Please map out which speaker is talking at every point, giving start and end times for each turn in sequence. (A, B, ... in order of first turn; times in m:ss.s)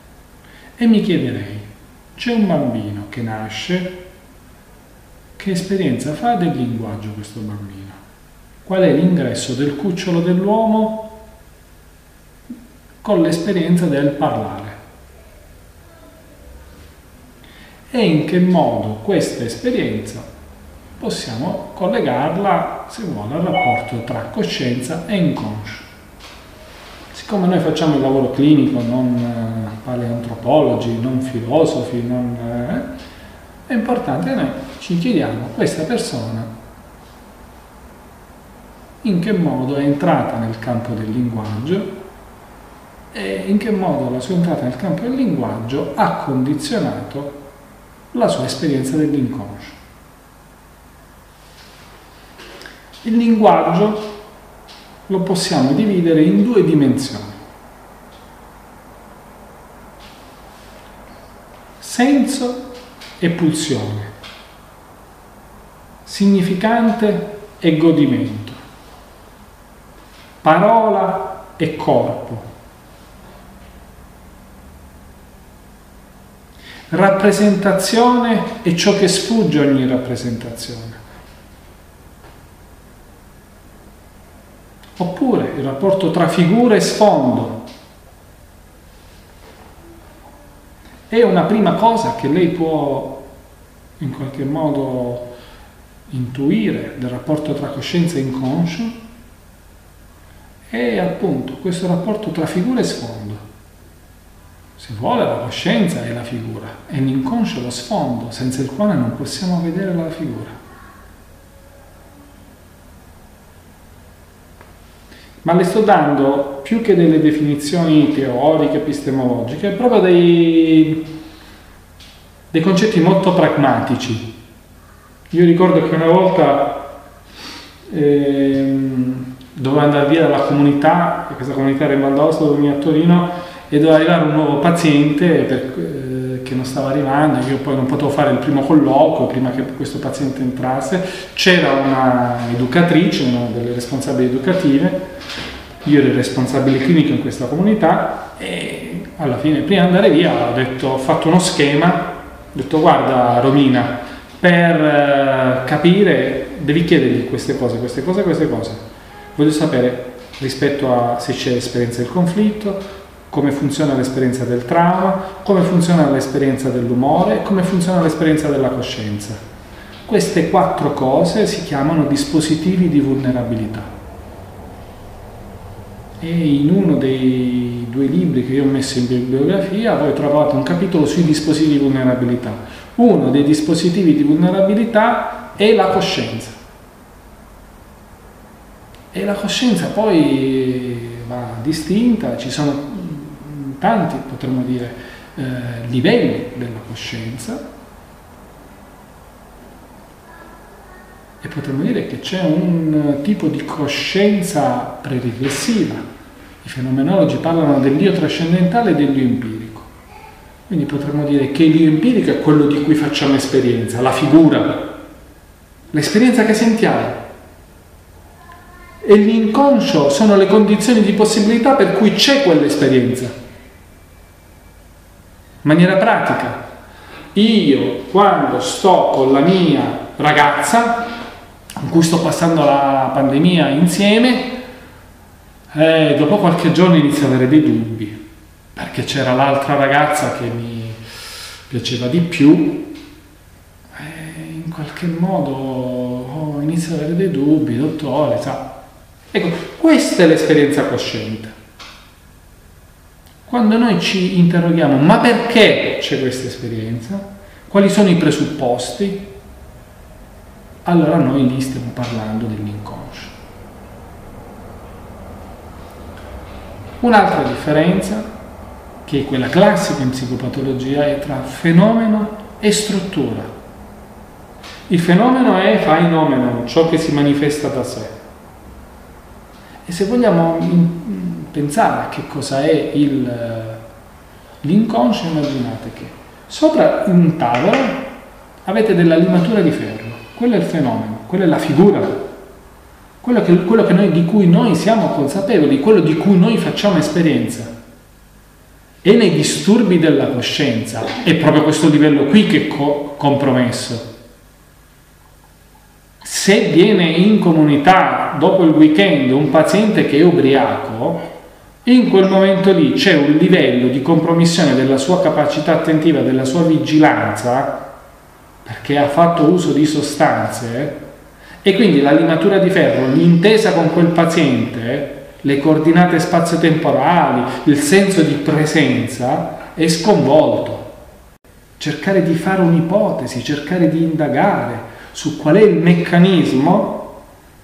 0:00.8-0:04.0 A
0:05.4-0:08.0 A
0:08.6-0:11.1 A
0:13.0-0:14.8 A
0:17.9-0:20.3 A
0:21.0-0:25.9 A
0:27.1-0:32.9 A
0:33.7-0:36.5 A
0:39.0-0:42.0 A
0:43.1-0:47.4 A
0:48.1-0:49.8 A
0:53.0-0:54.1 A
0:55.1-0:57.4 A
1:01.8-1:04.1 A
1:06.0-1:08.6 A
1:10.4-1:12.4 A
1:16.9-1:21.0 A
1:25.0-1:27.6 A
1:31.1-1:33.2 A
1:34.0-1:35.3 A
1:36.1-1:39.0 A
1:40.7-1:43.4 A
1:44.8-1:50.6 A
1:55.4-2:01.1 A
2:02.5-2:04.3 A
2:05.3-2:06.9 A
2:07.9-2:25.1 A
2:25.8-2:38.8 A
2:39.3-2:49.4 A
2:50.0-2:53.9 A
2:56.2-3:06.6 A
3:09.1-3:17.6 A
3:21.4-3:26.0 A
3:26.6-3:29.9 A
3:30.7-3:34.9 A
3:35.9-3:37.2 A
3:39.0-3:43.3 A
3:45.6-3:46.6 A
3:47.3-3:51.1 A
3:51.8-3:54.6 A
3:55.7-3:58.2 A
3:58.7-4:01.0 A
4:01.7-4:02.9 A
4:03.9-4:08.8 A
4:09.3-4:11.5 A
4:13.5-4:19.3 A
4:20.8-4:23.3 A
4:27.0-4:28.3 A
4:29.0-4:33.5 A
4:34.9-4:38.2 A
4:39.8-4:43.8 A
4:44.6-4:48.1 A
4:48.6-4:52.3 A
4:53.2-4:57.7 A
4:59.0-5:04.1 A
5:06.2-5:11.3 A
5:11.8-5:17.9 A
5:18.6-5:21.0 A
5:21.6-5:30.9 A
5:31.8-5:37.1 A